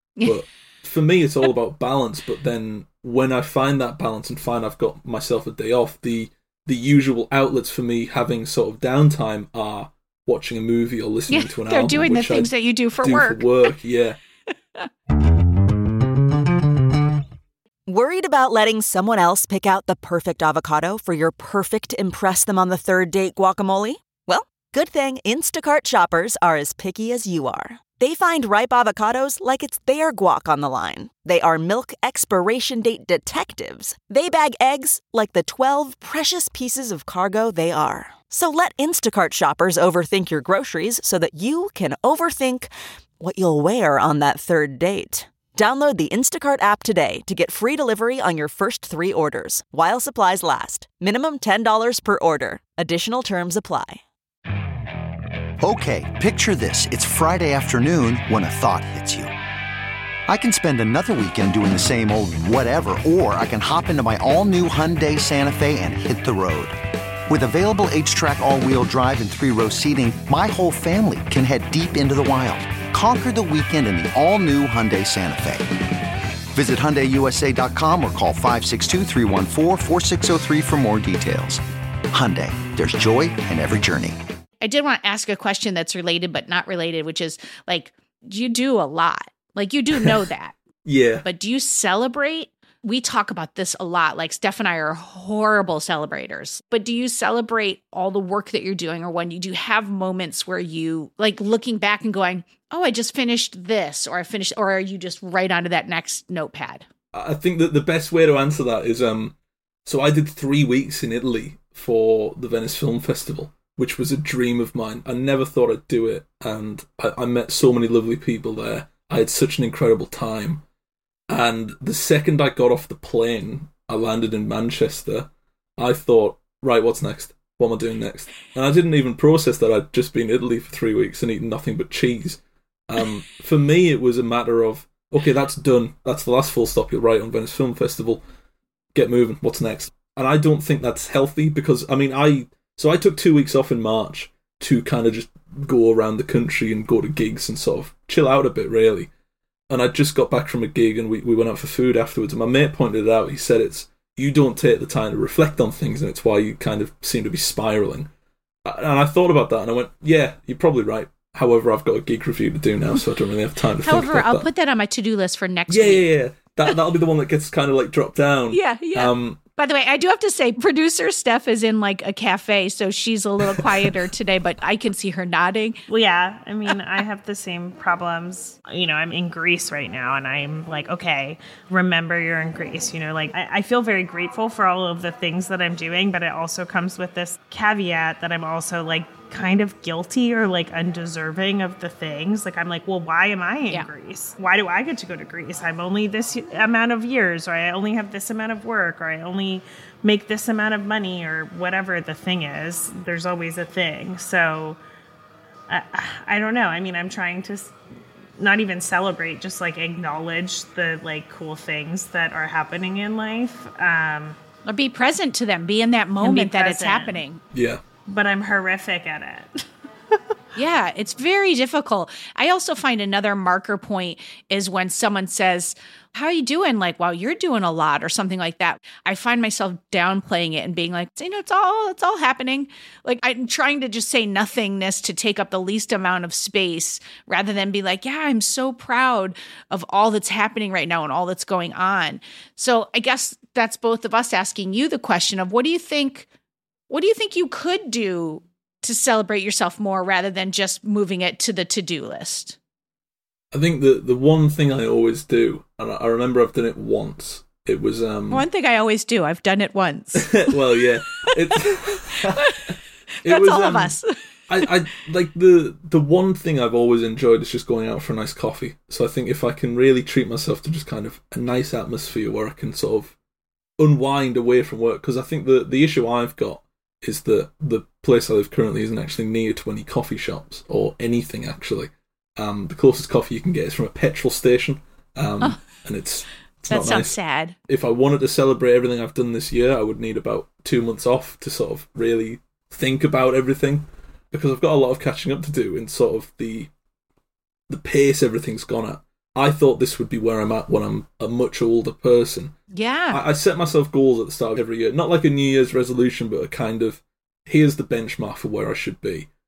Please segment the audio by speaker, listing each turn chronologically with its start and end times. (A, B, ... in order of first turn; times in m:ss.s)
0:00.2-0:12.5 A
0:11.3-0:13.7 B
0:13.0-0:14.2 A
0:17.9-0:54.0 C
0:55.6-0:59.3 D
1:00.3-1:06.8 D
1:07.3-1:15.7 D
1:16.5-1:24.2 D
1:24.6-1:30.6 B
1:30.8-1:31.2 A
1:31.2-1:46.9 B
1:47.1-1:49.4 A
1:49.9-2:00.6 A
2:01.3-2:18.2 A
2:18.9-2:29.1 A
2:29.7-2:38.1 A
2:38.6-2:44.5 A
2:43.8-2:46.1 B
2:45.7-2:49.4 A
2:48.5-2:55.8 B
2:55.9-3:24.8 E
3:25.7-3:27.7 E
3:28.4-3:34.4 E
3:34.7-3:37.4 B
3:36.2-3:37.2 E
3:37.5-3:37.8 A
3:38.1-3:39.6 E
3:40.6-4:06.3 B
4:06.9-4:12.6 B
4:13.5-4:18.4 A
4:18.3-4:20.5 B
4:20.2-4:24.0 A
4:21.2-4:22.7 B
4:23.2-4:24.7 B
4:24.5-4:33.2 A
4:33.8-4:47.2 A
4:46.7-4:47.6 B
4:47.7-4:56.7 A
4:57.7-5:02.6 A
5:02.7-5:03.2 B
5:03.1-5:09.3 A